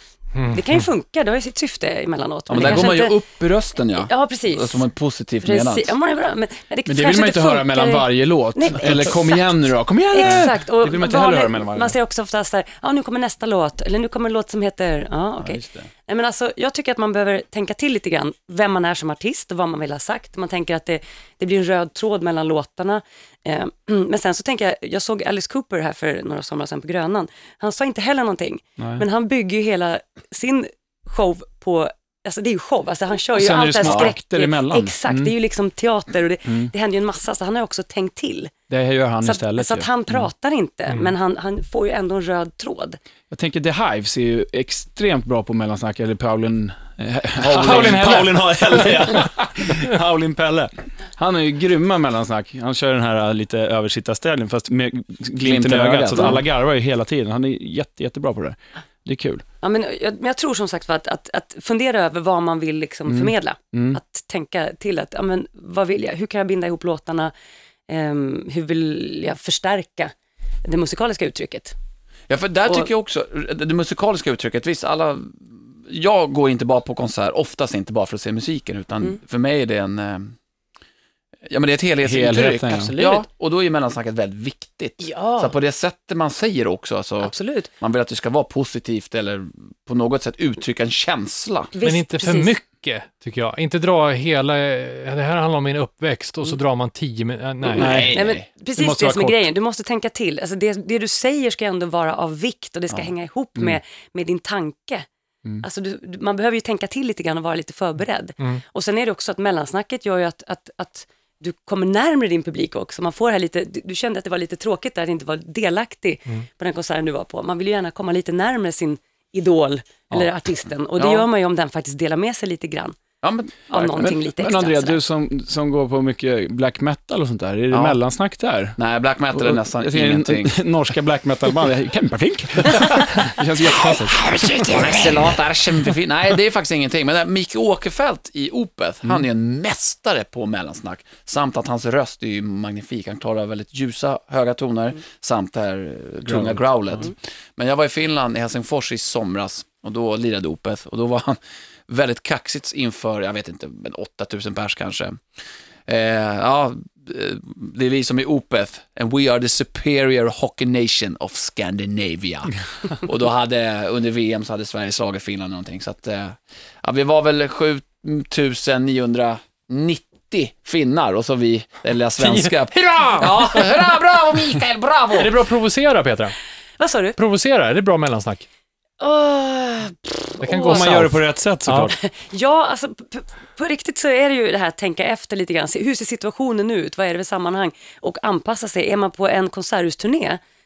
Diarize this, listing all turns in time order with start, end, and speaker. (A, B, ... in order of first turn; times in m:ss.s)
0:00.4-0:00.8 A
0:00.5-0:03.2 B
0:02.5-0:05.9 C
0:04.0-0:04.8 B
0:05.4-0:38.5 B
0:06.8-0:12.0 D
0:15.4-0:15.9 C
0:28.8-0:29.0 D
0:33.4-0:35.3 D
0:33.8-0:34.1 C
0:38.7-0:40.3 D
0:39.2-0:43.0 B
0:43.3-0:59.4 D
0:47.4-0:48.9 C
0:47.5-0:49.3 A
0:55.4-0:56.4 C
0:56.2-0:56.4 B
0:59.6-1:07.3 B
1:03.1-1:04.0 D
1:07.9-1:10.1 B
1:10.6-1:11.8 B
1:12.3-1:20.4 C
1:21.5-1:31.7 C
1:22.0-1:23.0 D
1:22.8-1:23.2 B
1:25.0-1:25.6 B
1:27.2-1:27.7 B
1:31.7-1:32.6 B
1:31.8-1:38.1 A
1:37.8-1:38.2 D
1:37.8-1:38.4 C
1:38.1-1:45.1 B
1:38.8-1:39.5 D
1:45.6-2:03.0 B
2:01.0-2:01.3 C
2:03.2-2:04.2 C
2:03.7-2:05.0 B
2:04.0-2:08.8 D
2:07.7-2:08.0 C
2:08.8-2:10.6 C
2:09.3-2:15.3 D
2:13.8-2:35.2 C
2:26.3-2:27.0 D
2:35.9-2:55.4 C
2:52.2-2:53.7 A
2:55.2-2:56.4 A
2:56.8-2:57.2 B
2:57.2-2:58.4 A
2:59.0-3:00.9 B
3:00.4-3:01.9 A
3:00.7-3:02.0 D
3:02.0-3:10.4 B